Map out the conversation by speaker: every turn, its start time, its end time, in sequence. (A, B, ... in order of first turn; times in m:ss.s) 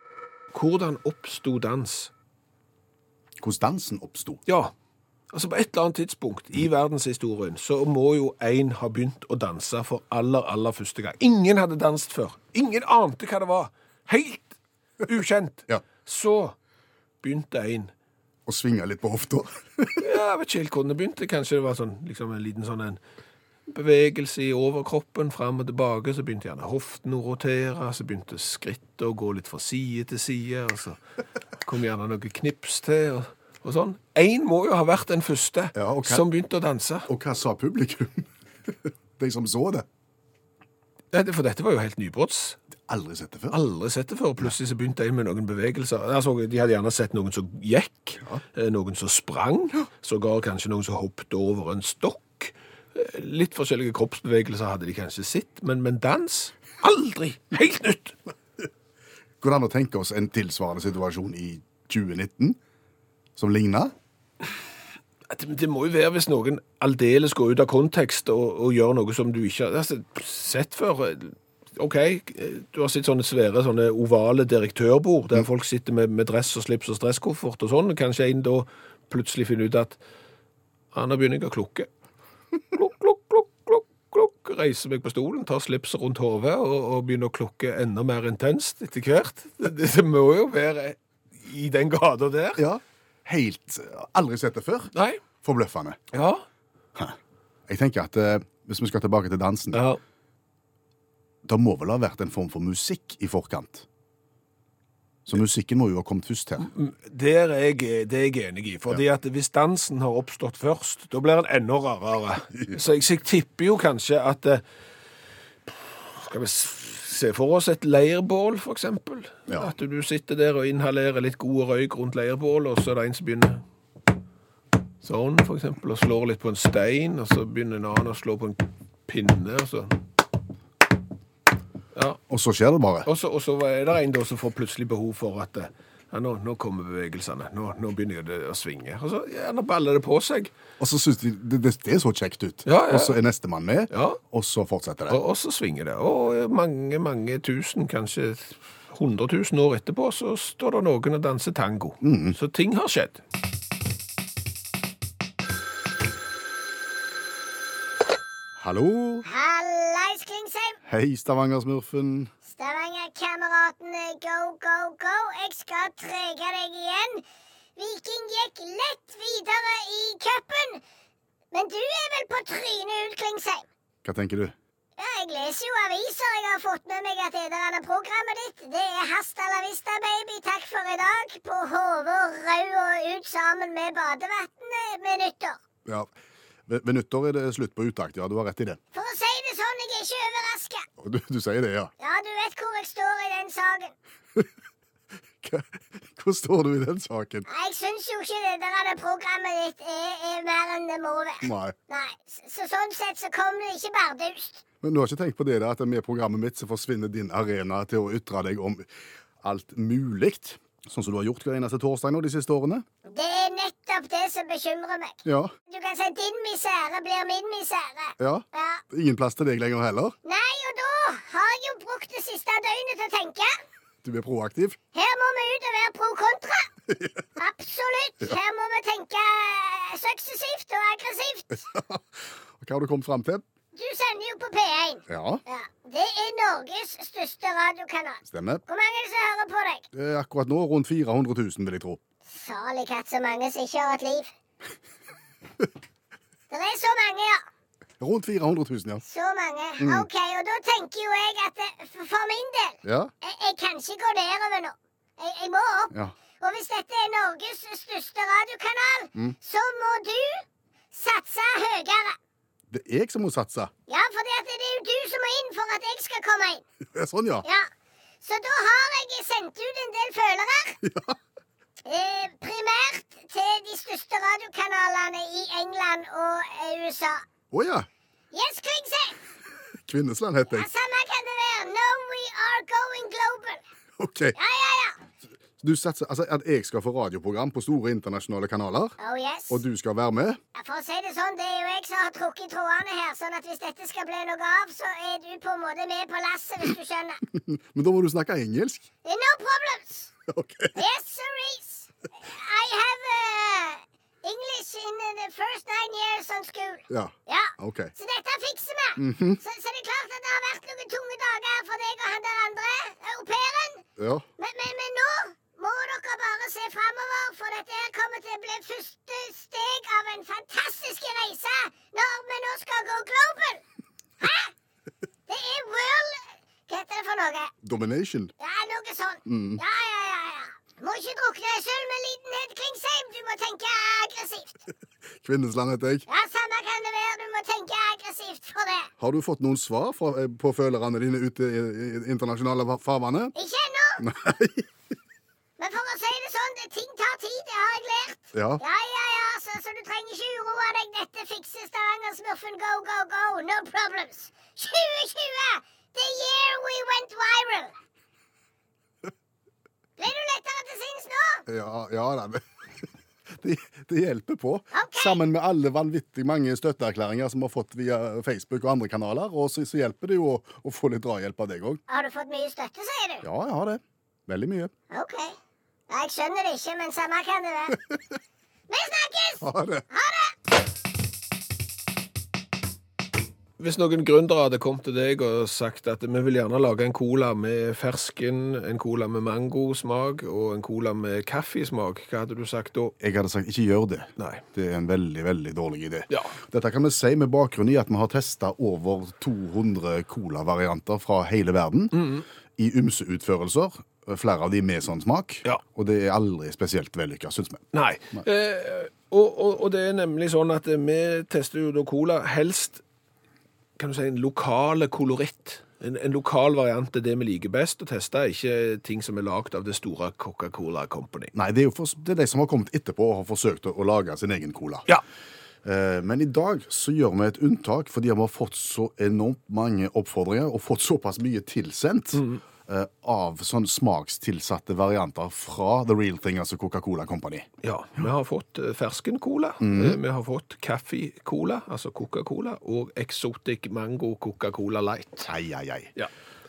0:00.5-0:02.1 A
0:03.4-0:04.4 B
0:04.4-0:04.7 A
0:05.3-0:16.6 A
0:17.2-0:17.9 A
0:18.5-0:20.0 B
0:20.0-0:23.0 A
0:23.7-0:31.0 A
0:31.6-0:37.1 A
0:35.7-0:36.2 B
0:37.1-0:39.8 B
0:41.1-0:42.6 A
0:42.9-0:43.5 B
0:43.5-0:58.2 A
0:59.4-1:02.6 B
1:03.4-1:03.9 B
1:05.3-1:20.0 A
1:20.9-1:21.9 A
1:22.7-1:32.6 A
1:32.6-1:34.9 B
1:34.9-1:35.2 A
1:35.4-1:36.0 B
1:36.1-1:36.4 A
1:37.7-1:39.8 B
1:39.7-1:40.0 A
1:41.4-1:43.8 B
1:45.2-1:46.7 B
1:46.6-1:54.6 A
1:55.7-2:03.6 A
1:59.5-1:59.7 B
2:05.0-2:10.0 A
2:11.9-2:12.2 A
2:12.3-2:13.1 B
2:13.0-2:20.5 A
2:20.8-2:25.2 B
2:22.6-2:23.2 A
2:23.9-2:24.2 A
2:25.1-2:33.2 A
2:32.0-2:32.4 B
2:38.6-2:39.2 B
2:39.2-2:40.8 C
2:40.8-2:42.3 B
2:42.4-2:47.2 C
2:47.8-2:50.8 C
2:51.5-2:53.6 C
2:54.0-2:54.5 B
2:55.0-3:05.6 C
3:06.7-3:08.8 B
3:08.9-3:10.8 C
3:11.0-3:11.9 B
3:12.0-3:13.9 C
3:15.4-3:17.5 B
3:17.5-3:24.6 C
3:21.4-3:21.7 B
3:24.8-3:28.9 B
3:29.4-3:32.8 B
3:33.0-3:38.8 C
3:35.2-3:35.5 B
3:38.2-3:40.2 B
3:40.2-3:43.6 C
3:44.0-3:44.8 B
3:44.9-3:46.7 C
3:46.9-3:47.2 B
3:47.4-3:51.6 C
3:51.6-3:53.4 B
3:53.7-3:59.8 C
3:55.1-3:55.4 B
3:58.2-3:58.6 B
3:59.9-4:02.0 B
4:02.3-4:04.3 C
4:06.5-4:07.4 C
4:08.0-4:09.0 B
4:09.0-4:22.2 C
4:09.8-4:10.1 B
4:12.8-4:13.1 B
4:22.7-4:23.7 B
4:23.9-4:26.6 C
4:26.9-4:27.4 B
4:28.2-4:30.8 C
4:30.8-4:31.2 B
4:31.8-4:37.2 C
4:37.5-4:37.9 B
4:38.3-4:39.2 C
4:39.8-4:40.7 B
4:40.5-4:43.6 C
4:44.0-4:44.4 B
4:44.3-4:45.0 C
4:45.6-4:49.0 B
4:49.0-4:49.6 C
4:49.5-4:50.4 B
4:50.5-4:57.2 C
4:57.3-4:58.9 B
4:59.0-5:00.1 C
5:00.3-5:00.8 B
5:00.7-5:13.8 C
5:06.9-5:07.9 B
5:09.0-5:09.4 B
5:14.0-5:14.2 B
5:14.4-5:23.6 C
5:24.2-5:24.5 C
5:25.3-5:27.5 C
5:27.6-5:28.3 B
5:28.4-5:34.6 C
5:29.2-5:29.6 B
5:35.2-5:36.1 B
5:36.1-5:38.9 C
5:39.0-5:43.3 B
5:43.3-5:44.1 C
5:44.0-5:44.7 B
5:45.6-5:57.7 C
5:48.3-5:48.6 B
6:00.0-6:01.4 C
6:01.5-6:02.4 B
6:03.3-6:11.8 B
6:04.7-6:05.2 C
6:11.9-6:13.2 C
6:13.2-6:14.7 B
6:14.9-6:15.3 C
6:15.9-6:17.8 C
6:18.7-6:20.3 C
6:19.4-6:19.8 B
6:23.6-6:32.9 A
6:33.0-6:48.2 B
6:34.2-6:34.4 A
6:36.1-6:36.3 A
6:41.9-6:42.2 A
6:47.7-6:52.8 A
6:53.8-7:01.3 A
7:01.3-7:04.9 B
7:05.6-7:17.5 B
7:12.1-7:12.4 A
7:17.6-7:25.3 A
7:19.6-7:20.0 B
7:25.2-7:25.9 B